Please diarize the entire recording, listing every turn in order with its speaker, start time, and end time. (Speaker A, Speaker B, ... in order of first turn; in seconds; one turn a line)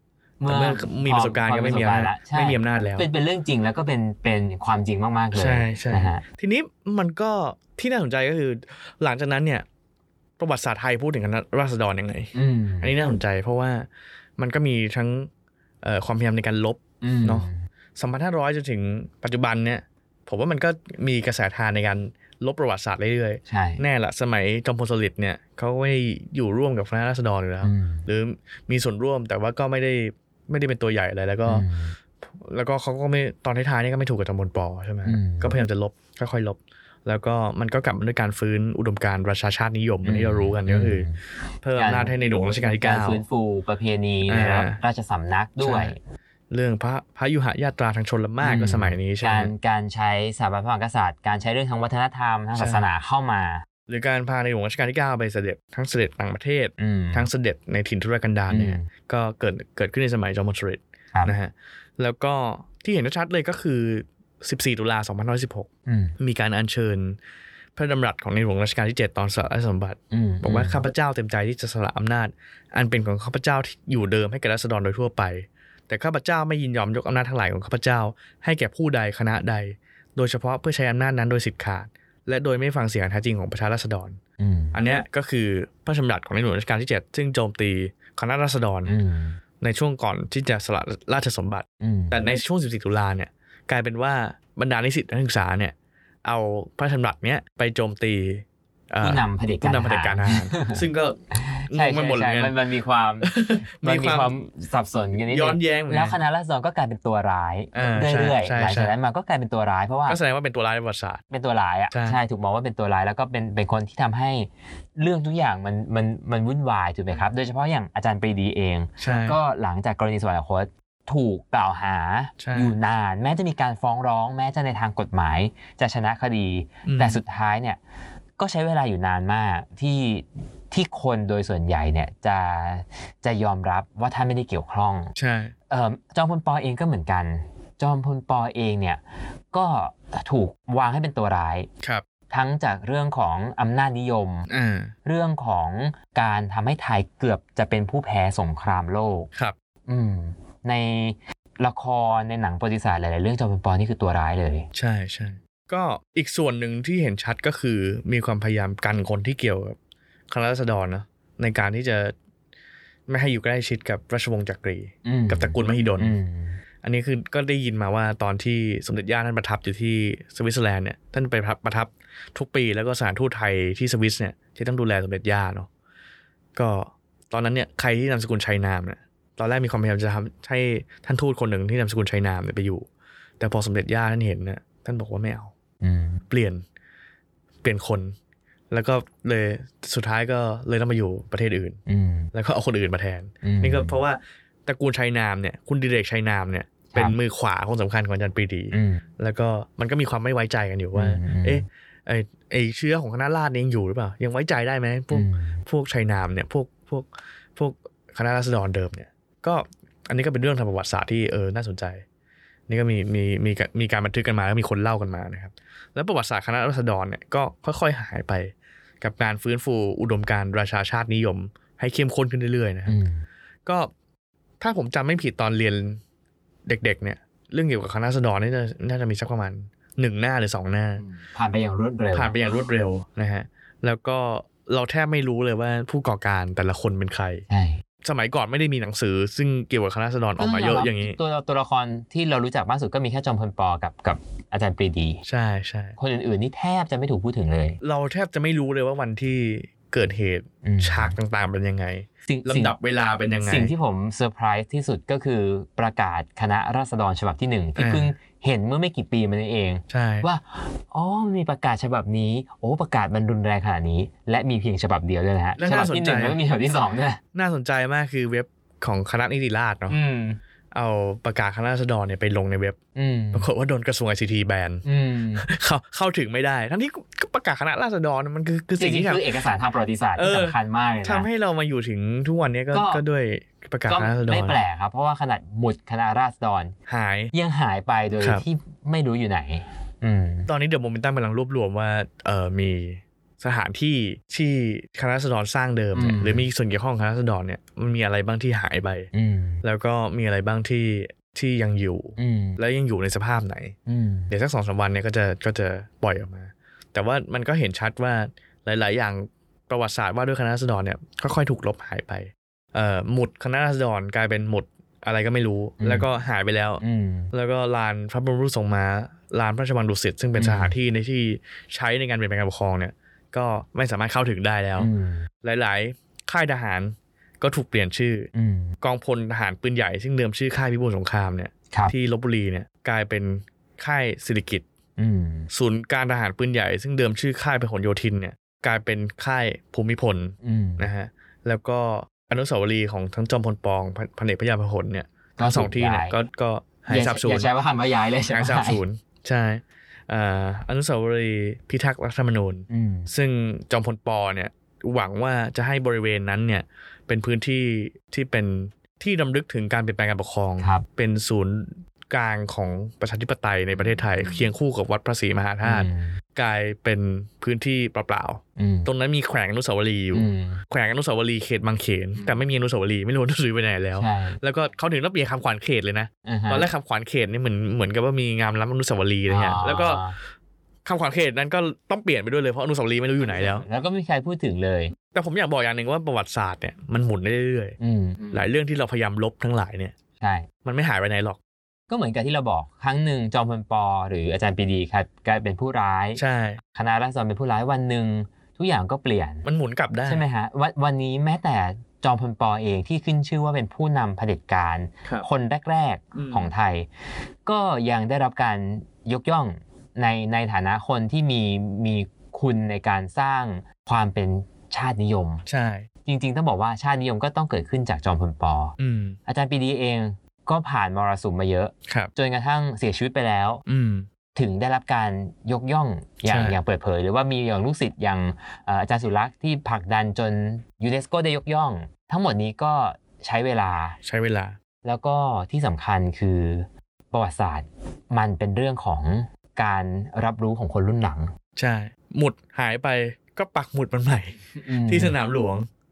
Speaker A: 0.4-6.2
Speaker B: 0.5-3.1
Speaker B: 5.3-9.7
Speaker B: 10.4-15.3
Speaker A: 12.3-12.9
Speaker B: 15.8-31.7
Speaker A: 17.0-17.6
Speaker A: 23.5-23.8
Speaker A: 27.6-28.1
Speaker A: 31.5-32.0
Speaker B: 32.2-41.1
Speaker A: 35.1-35.5
Speaker A: 40.0-41.2
Speaker B: 41.6-43.2
Speaker A: 41.8-42.1
Speaker A: 42.8-46.0
Speaker B: 44.3-44.8
Speaker B: 45.6-45.9
Speaker B: 46.5-49.5
Speaker A: 48.4-53.6
Speaker B: 52.5-52.9
Speaker B: 53.9-67.2
Speaker A: 56.8-57.3
Speaker A: 58.5-58.9
Speaker A: 65.9-66.2
Speaker B: 67.8-84.2
Speaker A: 70.1-70.8
Speaker A: 84.4-84.8
Speaker B: 84.7-89.0
Speaker A: 88.9-89.4
Speaker B: 89.6-102.6
Speaker A: 91.8-92.2
Speaker A: 99.0-100.8
Speaker A: 101.3-110.2
Speaker B: 103.2-104.3
Speaker B: 105.2-106.2
Speaker B: 107.7-108.9
Speaker B: 110.1-111.2
Speaker A: 111.3-127.8
Speaker B: 111.9-112.2
Speaker B: 119.0-119.4
Speaker B: 122.4-122.7
Speaker B: 126.8-127.2
Speaker A: 128.4-135.1
Speaker B: 135.2-135.5
Speaker A: 135.7-141.7
Speaker A: 142.3-144.5
Speaker B: 144.5-144.9
Speaker A: 145.1-149.3
Speaker A: 149.9-154.7
Speaker B: 154.7-159.8
Speaker B: 160.3-162.1
Speaker B: 163.1-166.2
Speaker A: 165.1-166.6
Speaker B: 166.8-175.7
Speaker B: 176.6-182.9
Speaker B: 183.4-185.5
Speaker A: 185.8-186.2
Speaker B: 186.3-186.6
Speaker B: 187.6-188.2
Speaker B: 188.7-191.8
Speaker A: 191.9-192.3
Speaker B: 192.3-212.0
Speaker A: 193.4-194.0
Speaker A: 198.7-199.1
Speaker A: 200.9-201.6
Speaker A: 205.1-205.6
Speaker B: 212.7-222.9
Speaker A: 222.9-223.2
Speaker B: 223.7-223.9
Speaker B: 224.6-226.0
Speaker B: 226.7-231.0
Speaker A: 231.0-232.4
Speaker B: 232.1-237.4
Speaker A: 237.5-237.8
Speaker B: 238.0-241.2
Speaker A: 240.4-245.2
Speaker B: 245.2-246.0
Speaker A: 246.0-247.8
Speaker B: 247.8-253.7
Speaker A: 250.6-251.2
Speaker A: 252.3-252.7
Speaker A: 253.4-267.2
Speaker B: 257.8-258.1
Speaker B: 259.9-260.3
Speaker B: 265.6-266.4
Speaker B: 267.3-270.0
Speaker A: 269.9-270.4
Speaker B: 270.7-272.8
Speaker A: 273.0-273.5
Speaker B: 273.3-274.8
Speaker A: 274.8-275.5
Speaker B: 275.4-279.2
Speaker A: 278.8-281.3
Speaker B: 280.2-284.6
Speaker A: 282.7-283.0
Speaker A: 283.9-286.8
Speaker B: 286.9-287.3
Speaker A: 287.3-290.5
Speaker B: 288.2-288.4
Speaker B: 290.5-299.1
Speaker A: 295.9-296.5
Speaker A: 299.1-299.6
Speaker B: 299.6-303.8
Speaker A: 302.2-302.6
Speaker A: 303.9-304.3
Speaker B: 304.3-324.9
Speaker A: 315.8-316.1
Speaker A: 316.8-317.3
Speaker A: 320.4-320.8
Speaker A: 324.8-325.3
Speaker B: 325.4-328.3
Speaker A: 328.3-328.8
Speaker B: 328.8-334.6
Speaker A: 335.0-335.5
Speaker B: 335.5-347.5
Speaker A: 340.4-340.9
Speaker A: 345.4-346.1
Speaker A: 346.9-348.8
Speaker B: 348.3-380.0
Speaker A: 352.7-353.1
Speaker A: 360.6-360.9
Speaker A: 363.8-364.5
Speaker A: 365.6-366.2
Speaker A: 368.6-368.9
Speaker A: 370.1-370.6
Speaker A: 374.0-374.4
Speaker A: 376.2-376.7
Speaker A: 379.3-380.2
Speaker B: 380.9-383.6
Speaker A: 383.2-384.9
Speaker B: 385.1-387.8
Speaker A: 387.8-388.5
Speaker B: 388.3-389.9
Speaker A: 390.2-390.5
Speaker B: 390.6-391.4
Speaker A: 391.9-396.2
Speaker B: 396.2-396.6
Speaker A: 396.8-399.5
Speaker B: 399.4-400.2
Speaker A: 400.1-406.9
Speaker B: 406.1-406.5
Speaker A: 407.4-415.4
Speaker B: 415.5-415.9
Speaker A: 416.1-418.8
Speaker B: 418.8-419.2
Speaker A: 419.3-423.6
Speaker B: 423.7-424.1
Speaker A: 424.4-434.0
Speaker B: 426.2-426.6
Speaker B: 434.0-434.6
Speaker A: 434.8-441.3
Speaker B: 441.6-445.7
Speaker A: 444.6-445.2